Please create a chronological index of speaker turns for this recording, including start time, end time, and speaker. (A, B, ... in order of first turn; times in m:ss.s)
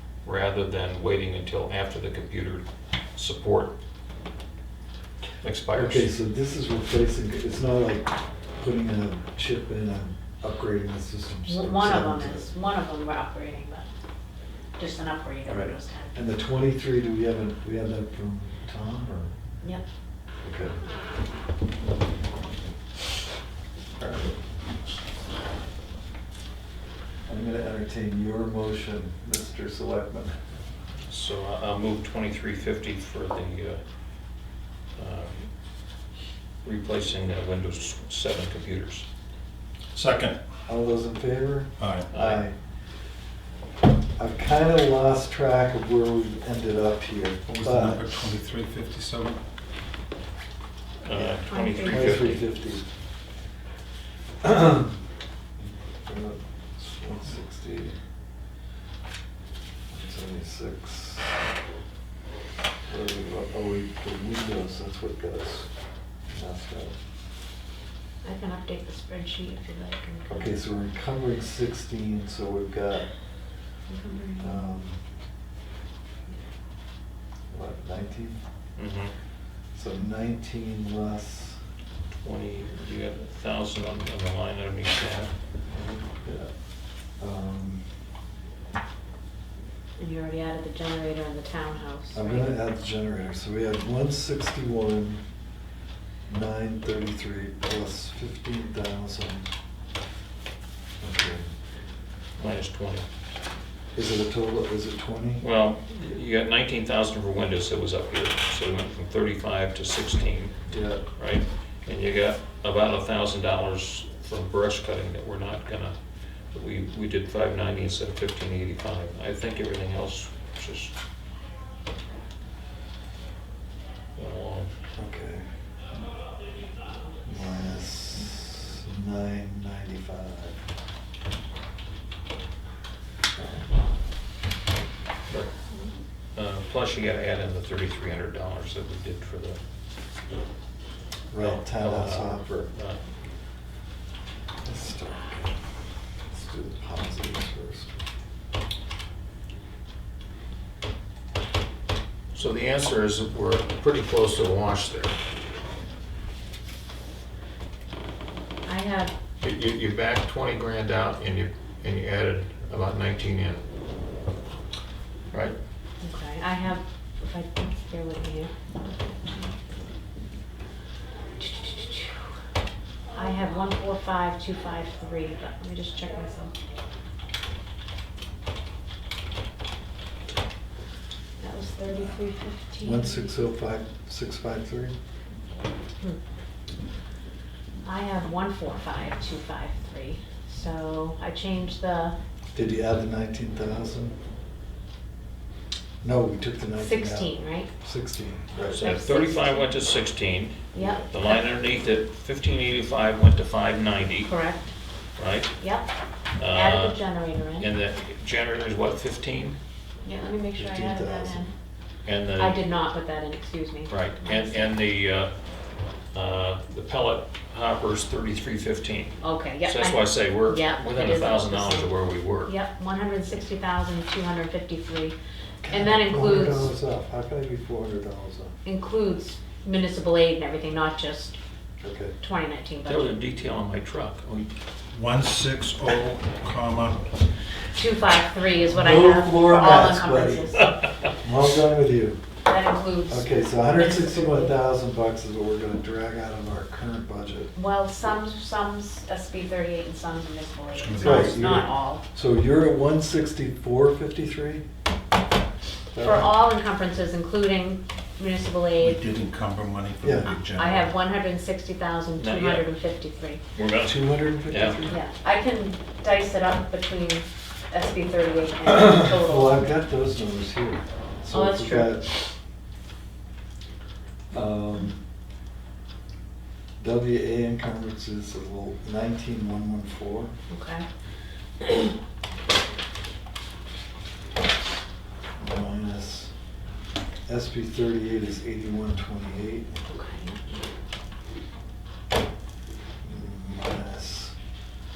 0:00.2-0:02.6 A
0:03.2-0:03.7 A
0:05.4-0:06.1 A
0:05.8-0:12.5 B
0:11.5-0:13.9 C
0:14.8-0:16.2 C
0:15.5-0:19.3 B
0:20.4-0:20.8 B
0:24.0-0:24.3 B
0:27.3-0:30.4 B
0:31.1-0:33.8 A
0:35.0-0:35.5 A
0:36.6-0:39.1 A
0:39.9-0:40.4 D
0:40.7-0:42.5 B
0:41.8-0:42.1 D
0:42.1-0:42.4 A
0:44.2-0:48.0 B
0:47.5-0:49.4 D
0:51.0-0:52.6 A
0:51.5-0:52.2 C
0:51.9-0:52.8 B
0:54.4-0:55.0 B
0:56.1-0:58.0 B
0:59.9-1:01.3 B
1:02.9-1:05.7 B
1:06.3-1:07.0 B
1:08.2-1:10.6 C
1:10.3-1:13.1 B
1:13.9-1:14.7 C
1:14.4-1:15.0 B
1:17.5-1:18.4 B
1:18.8-1:19.1 A
1:19.7-1:21.6 B
1:22.2-1:25.3 A
1:25.7-1:26.5 B
1:27.2-1:27.8 B
1:30.0-1:32.5 C
1:32.1-1:35.2 B
1:36.3-1:39.5 B
1:41.0-1:41.5 B
1:42.4-1:43.1 A
1:44.0-1:45.4 B
1:45.4-1:50.6 A
1:50.7-1:51.0 B
1:51.2-1:56.0 A
1:56.5-2:00.9 A
2:04.2-2:04.7 A
2:05.0-2:05.5 B
2:07.3-2:10.6 B
2:13.4-2:13.7 B
2:15.3-2:15.6 A
2:16.4-2:19.6 A
2:21.3-2:22.7 B
2:21.4-2:23.0 A
2:24.6-2:25.5 B
2:26.3-2:28.0 B
2:32.3-2:35.2 A
2:38.7-2:39.1 C
2:39.4-2:43.6 A
2:46.0-2:48.5 C
2:51.4-2:52.3 C
2:53.2-2:56.5 C
3:01.4-3:03.3 C
3:02.8-3:05.0 B
3:07.8-3:12.2 C
3:12.5-3:14.2 B
3:16.0-3:18.8 B
3:16.8-3:17.7 C
3:18.7-3:24.3 A
3:18.7-3:19.7 C
3:20.7-3:21.4 C
3:24.3-3:24.7 C
3:25.2-3:25.5 A
3:25.6-3:25.9 C
3:26.4-3:27.0 A
3:26.5-3:27.7 C
3:27.6-3:29.6 A
3:30.0-3:31.5 C
3:30.6-3:31.5 B
3:32.0-3:32.6 A
3:32.4-3:34.7 C
3:33.9-3:35.3 A
3:36.1-3:42.6 A
3:39.2-3:41.9 C
3:42.4-3:45.2 C
3:45.6-3:48.6 B
3:45.7-3:46.7 C
3:48.6-3:51.4 C
3:51.8-3:52.1 B
3:52.2-3:53.2 C
3:52.8-3:54.5 A
3:54.9-3:57.1 D
3:57.8-4:00.7 C
3:58.7-4:00.5 B
4:00.6-4:00.9 A
4:01.2-4:02.2 B
4:02.5-4:04.5 C
4:03.1-4:07.5 B
4:07.6-4:12.0 C
4:10.7-4:11.6 D
4:11.0-4:14.6 B
4:15.9-4:16.3 B
4:16.0-4:19.0 C
4:18.8-4:20.9 D
4:20.0-4:20.3 B
4:20.5-4:23.4 C
4:22.2-4:22.7 A
4:23.6-4:24.0 A
4:23.8-4:25.0 B
4:24.5-4:24.8 A
4:24.9-4:29.7 C
4:28.7-4:32.2 B
4:31.3-4:32.1 C
4:34.3-4:35.0 B
4:36.8-4:40.3 B
4:40.5-4:40.8 C
4:45.4-4:46.3 B
4:47.3-4:49.8 B
4:49.9-4:50.4 C
4:53.0-4:54.3 B